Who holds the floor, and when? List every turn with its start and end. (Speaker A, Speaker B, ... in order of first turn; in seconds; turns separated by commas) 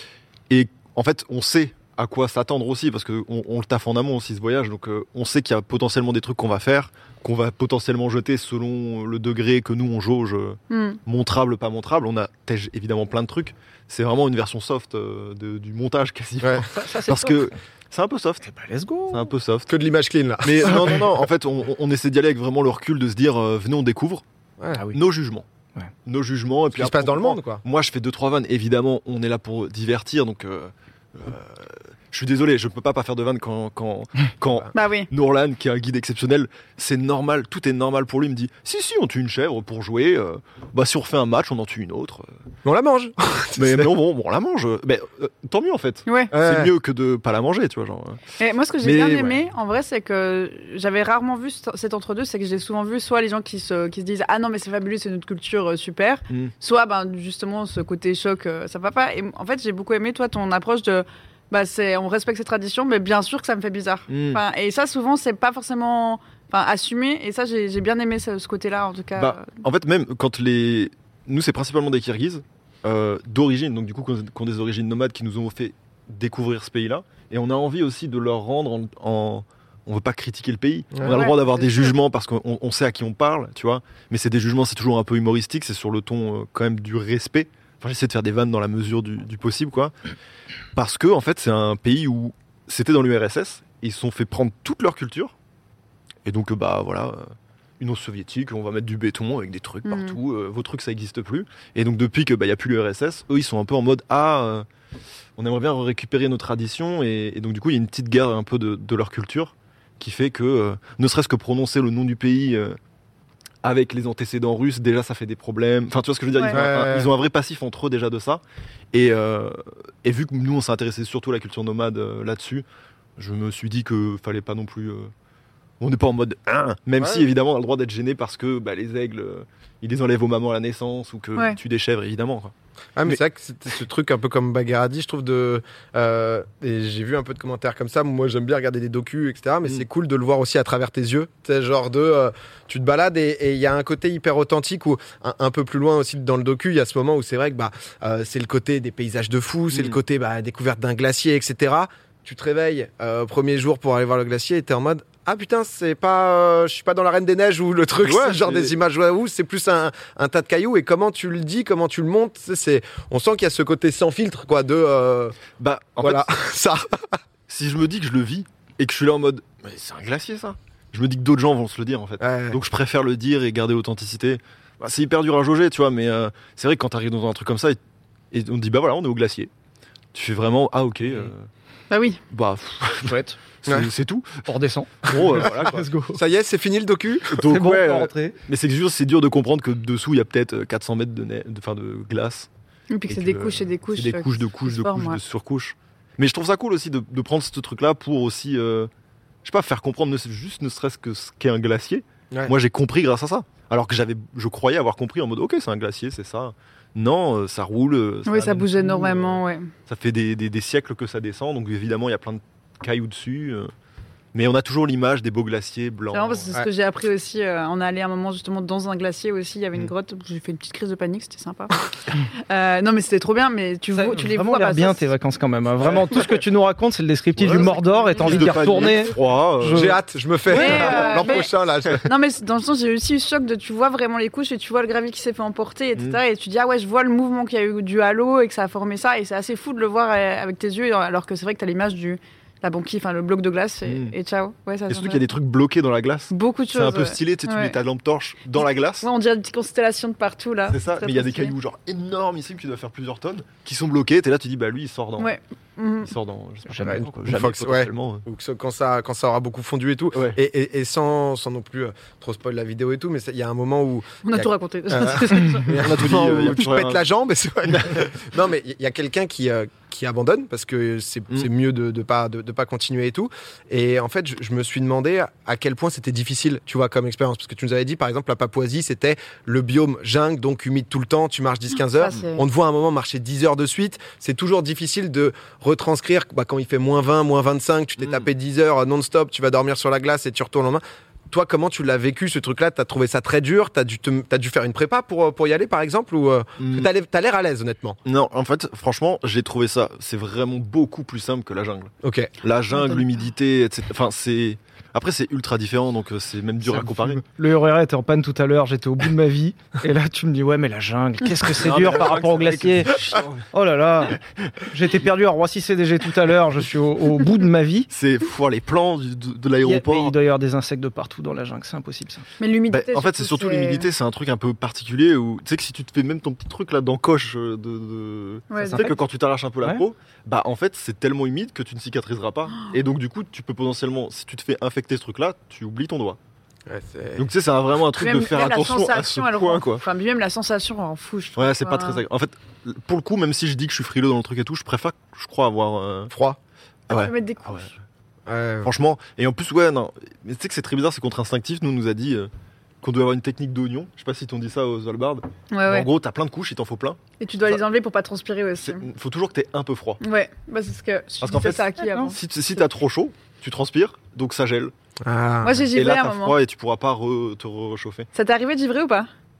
Speaker A: 0.5-18.5, Speaker B: 10.7-11.0, Speaker C: 16.7-17.5, Speaker C: 18.5-19.3, Speaker A: 19.1-19.7, Speaker D: 19.7-21.0, Speaker A: 20.4-24.2, Speaker A: 24.9-25.4, Speaker A: 26.1-42.3, Speaker D: 26.7-27.6, Speaker B: 34.7-35.1, Speaker D: 42.6-43.9, Speaker A: 43.6-48.2, Speaker B: 46.0-46.3, Speaker D: 46.3-46.7, Speaker B: 48.4-69.5, Speaker A: 48.8-49.4, Speaker A: 64.1-64.4, Speaker A: 69.2-89.9, Speaker B: 81.0-81.9, Speaker A: 90.8-95.3, Speaker A: 96.2-97.2, Speaker A: 97.8-104.7, Speaker B: 99.8-100.2, Speaker A: 105.4-112.8, Speaker A: 113.6-118.4, Speaker D: 116.5-117.1, Speaker A: 118.9-122.7, Speaker A: 123.2-125.1, Speaker A: 125.8-132.5, Speaker D: 127.0-127.2, Speaker D: 132.9-165.4, Speaker A: 149.7-150.0, Speaker A: 158.0-158.7, Speaker A: 165.6-166.3, Speaker D: 166.0-167.2, Speaker A: 167.5-177.8, Speaker D: 172.2-172.6, Speaker A: 178.3-179.5, Speaker A: 180.1-181.5, Speaker B: 181.9-182.2, Speaker A: 182.3-184.5, Speaker C: 183.0-183.4, Speaker C: 184.4-186.1, Speaker A: 185.0-186.2, Speaker D: 186.1-187.4, Speaker A: 187.3-192.5, Speaker C: 187.4-188.3, Speaker B: 192.9-195.2, Speaker A: 193.1-198.9, Speaker A: 199.4-213.7, Speaker B: 208.2-209.7, Speaker A: 214.3-216.5, Speaker B: 216.1-225.1, Speaker C: 223.9-230.0, Speaker A: 225.8-226.2, Speaker A: 227.4-229.9, Speaker B: 227.9-228.5, Speaker D: 229.7-232.0, Speaker B: 230.5-231.5, Speaker C: 230.5-231.0, Speaker A: 230.6-231.2, Speaker B: 232.0-245.2, Speaker A: 243.8-244.1, Speaker A: 244.9-249.1, Speaker B: 246.3-247.8, Speaker B: 249.0-251.5, Speaker A: 250.7-255.3, Speaker B: 255.2-256.1, Speaker A: 256.0-258.2, Speaker C: 256.7-257.0, Speaker D: 256.8-298.0, Speaker A: 260.1-260.4, Speaker B: 264.2-265.8, Speaker A: 265.7-267.0, Speaker A: 267.7-268.0, Speaker B: 281.9-282.4, Speaker A: 288.0-288.3, Speaker A: 296.6-296.9, Speaker A: 298.1-301.9, Speaker D: 302.0-302.3, Speaker A: 302.4-307.2, Speaker C: 306.6-317.9, Speaker A: 311.5-313.4, Speaker A: 317.9-320.1, Speaker C: 319.6-322.2, Speaker B: 322.4-323.9, Speaker A: 322.7-336.2, Speaker B: 328.5-329.0, Speaker C: 328.6-328.9, Speaker D: 336.7-337.2, Speaker A: 337.2-339.9, Speaker B: 338.0-342.0, Speaker A: 341.3-346.1, Speaker D: 346.1-346.4, Speaker A: 346.9-347.7, Speaker B: 346.9-347.7, Speaker D: 348.3-348.7, Speaker A: 348.6-352.3, Speaker A: 352.8-357.6, Speaker B: 355.5-355.9, Speaker B: 357.2-358.9, Speaker A: 358.6-360.0, Speaker B: 360.0-362.6, Speaker A: 361.2-364.7, Speaker D: 365.0-365.6, Speaker B: 365.4-366.4, Speaker A: 365.7-368.1, Speaker B: 368.1-369.1